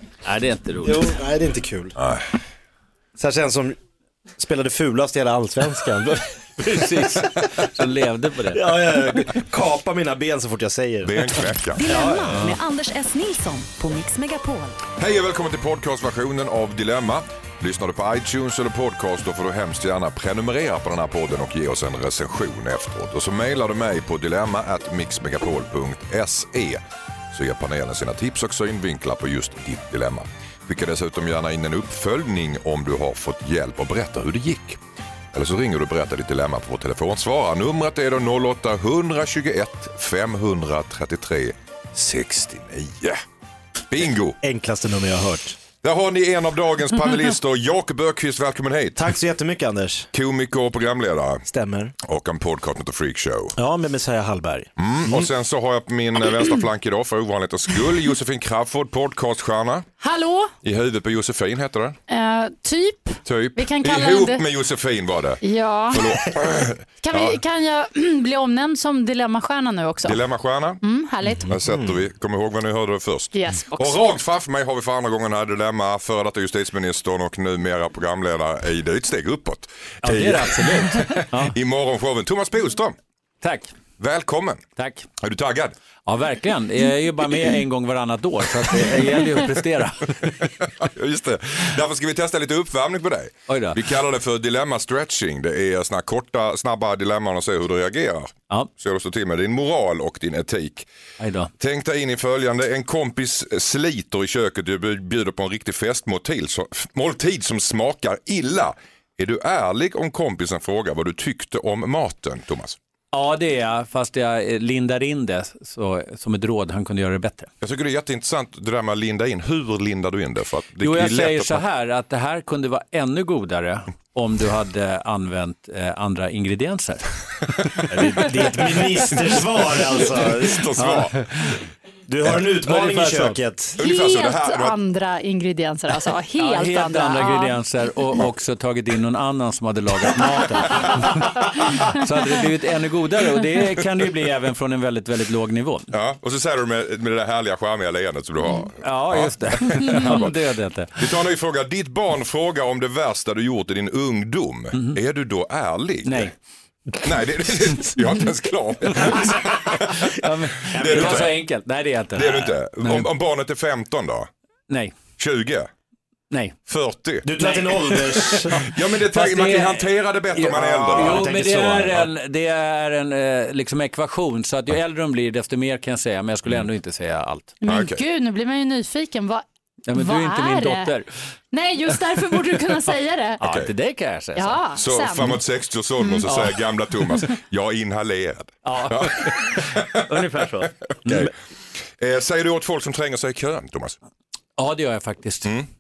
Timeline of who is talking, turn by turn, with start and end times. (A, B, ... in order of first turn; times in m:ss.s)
0:00.2-0:01.2 A
0:00.8-0:01.9 B
0:02.0-0:02.3 C
0:03.2-0:03.8 B
0:04.4-0:07.5 B
0:06.6-0:08.7 A
0:08.5-0:11.3 B
0:11.0-0:11.8 C
0:11.8-0:14.8 D
0:11.9-0:12.4 B
0:12.3-0:12.6 A
0:15.0-0:26.8 C
0:27.3-0:34.8 C
0:35.3-0:43.2 C
0:43.9-0:44.4 C
0:44.4-0:45.6 B
0:45.8-0:49.0 C
0:49.0-0:50.1 B
0:50.1-0:51.4 C
0:51.4-0:51.9 B
0:52.1-0:53.5 C
0:53.6-0:55.3 B
0:54.8-0:59.9 C
1:00.0-1:00.5 E
1:00.6-1:02.0 C
1:02.1-1:04.4 E
1:03.2-1:07.4 C
1:05.4-1:06.3 E
1:07.0-1:10.2 E
1:10.0-1:10.8 C
1:10.8-1:11.5 E
1:11.4-1:23.0 C
1:11.6-1:12.0 B
1:13.3-1:14.0 E
1:20.0-1:21.5 A
1:23.4-1:23.7 A
1:24.0-1:24.6 C
1:24.8-1:25.1 A
1:25.2-1:25.7 C
1:26.0-1:30.3 A
1:30.6-1:40.9 C
1:33.5-1:33.8 A
1:41.2-1:41.5 A
1:41.6-1:52.8 C
1:53.1-1:57.5 A
1:57.6-2:01.6 C
2:00.8-2:09.0 A
2:07.9-2:10.7 B
2:10.4-2:11.5 C
2:10.8-2:11.6 A
2:12.1-2:13.8 B
2:12.6-2:13.4 A
2:13.8-2:14.8 C
2:13.8-2:17.5 E
2:16.4-2:25.9 A
2:20.6-2:21.3 C
2:25.9-2:30.4 C
2:28.8-2:31.2 A
2:31.0-2:36.3 C
2:34.7-2:35.0 A
2:36.0-2:36.3 A
2:37.0-2:41.4 C
2:39.0-2:43.1 A
2:42.1-2:44.3 C
2:44.7-2:45.0 A
2:45.2-2:45.7 C
2:46.3-2:46.6 A
2:46.7-2:47.3 C
2:47.2-2:48.6 B
2:47.4-2:57.5 A
2:48.6-2:51.5 C
2:50.5-2:52.0 B
2:57.6-3:00.9 E
2:57.6-2:58.0 C
2:59.9-3:01.1 A
3:01.5-3:03.4 E
3:03.4-3:04.6 A
3:03.4-3:03.7 C
3:04.4-3:05.4 E
3:04.7-3:10.4 C
3:06.2-3:07.0 A
3:08.6-3:11.3 A
3:11.0-3:11.3 C
3:12.0-3:14.0 C
3:14.6-3:15.5 A